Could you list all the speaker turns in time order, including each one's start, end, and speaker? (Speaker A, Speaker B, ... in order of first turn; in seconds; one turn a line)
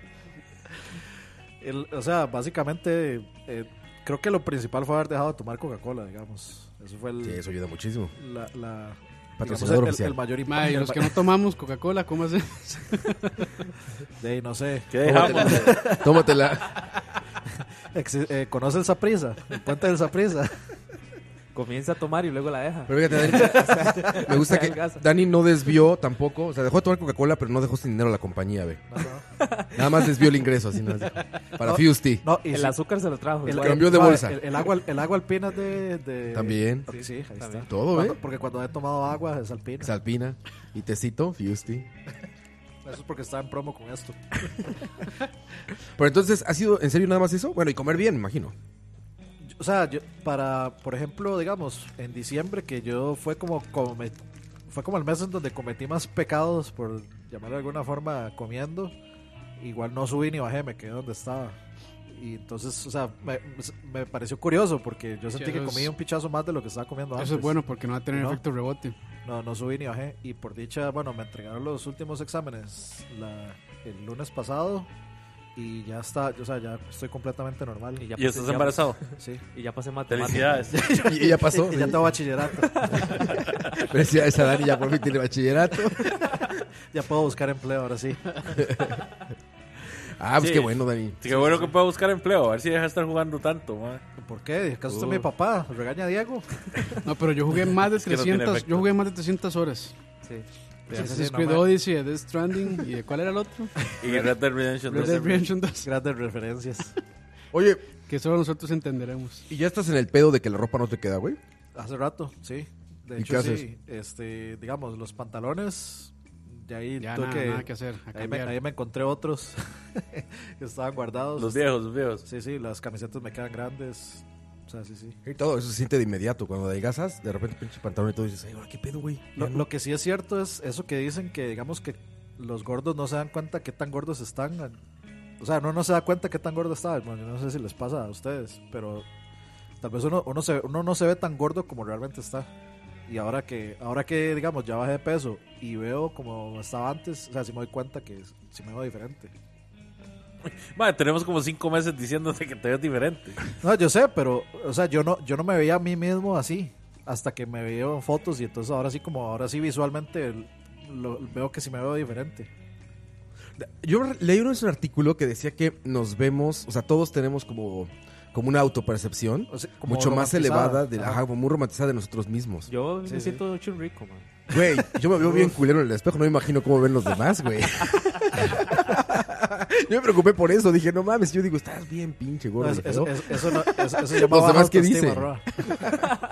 Speaker A: 1.6-7.4
Speaker B: 7.2-8.1
Speaker A: 8.2-11.3
Speaker B: 9.4-10.2
Speaker C: 10.5-13.5
Speaker A: 14.2-16.3
Speaker D: 14.9-15.8
Speaker B: 15.0-16.9
Speaker A: 17.9-20.6
Speaker E: 21.5-25.0
Speaker B: 22.9-28.9
Speaker A: 28.9-29.2
Speaker E: 29.4-30.1
Speaker B: 29.7-32.3
Speaker A: 31.6-32.8
Speaker E: 32.5-34.2
Speaker A: 33.4-39.9
Speaker B: 33.5-34.7
Speaker B: 36.3-36.9
Speaker E: 36.9-37.7
Speaker B: 37.7-38.2
Speaker B: 39.8-41.9
Speaker A: 42.9-44.8
Speaker B: 46.0-48.5
Speaker A: 49.4-59.0
Speaker A: 59.6-61.6
Speaker A: 62.1-67.6
Speaker C: 65.4-65.9
Speaker C: 67.2-69.0
Speaker A: 68.1-68.4
Speaker A: 69.2-74.9
Speaker A: 75.6-78.1
Speaker E: 78.0-80.7
Speaker D: 78.2-79.0
Speaker A: 79.2-79.4
Speaker D: 80.1-80.8
Speaker A: 80.7-83.5
Speaker B: 80.8-82.2
Speaker B: 82.9-86.2
Speaker A: 86.1-88.2
Speaker B: 88.5-89.0
Speaker B: 90.1-91.2
Speaker D: 90.4-94.0
Speaker A: 91.3-91.7
Speaker A: 94.2-96.7
Speaker E: 94.9-95.3
Speaker C: 97.0-100.0
Speaker D: 97.9-98.9
Speaker E: 100.2-101.1
Speaker C: 100.9-103.7
Speaker A: 100.9-101.7
Speaker A: 104.0-104.3
Speaker D: 104.0-105.4
Speaker C: 104.9-105.9
Speaker A: 104.9-106.9
Speaker B: 107.5-107.9
Speaker C: 108.1-109.5
Speaker B: 109.5-111.4
Speaker A: 111.8-121.7
Speaker B: 113.2-113.7
Speaker C: 117.0-118.6
Speaker D: 121.4-122.2
Speaker A: 122.3-125.2
Speaker B: 125.2-129.7
Speaker A: 129.4-134.8
Speaker A: 135.4-139.1
Speaker A: 139.8-142.5
Speaker A: 143.1-149.3
Speaker D: 150.4-153.4
Speaker A: 153.6-162.5
Speaker B: 163.6-172.7
Speaker A: 169.5-171.2
Speaker E: 172.7-174.3
Speaker A: 173.1-173.4
Speaker B: 174.5-186.0
Speaker A: 175.1-175.6
Speaker A: 182.6-185.4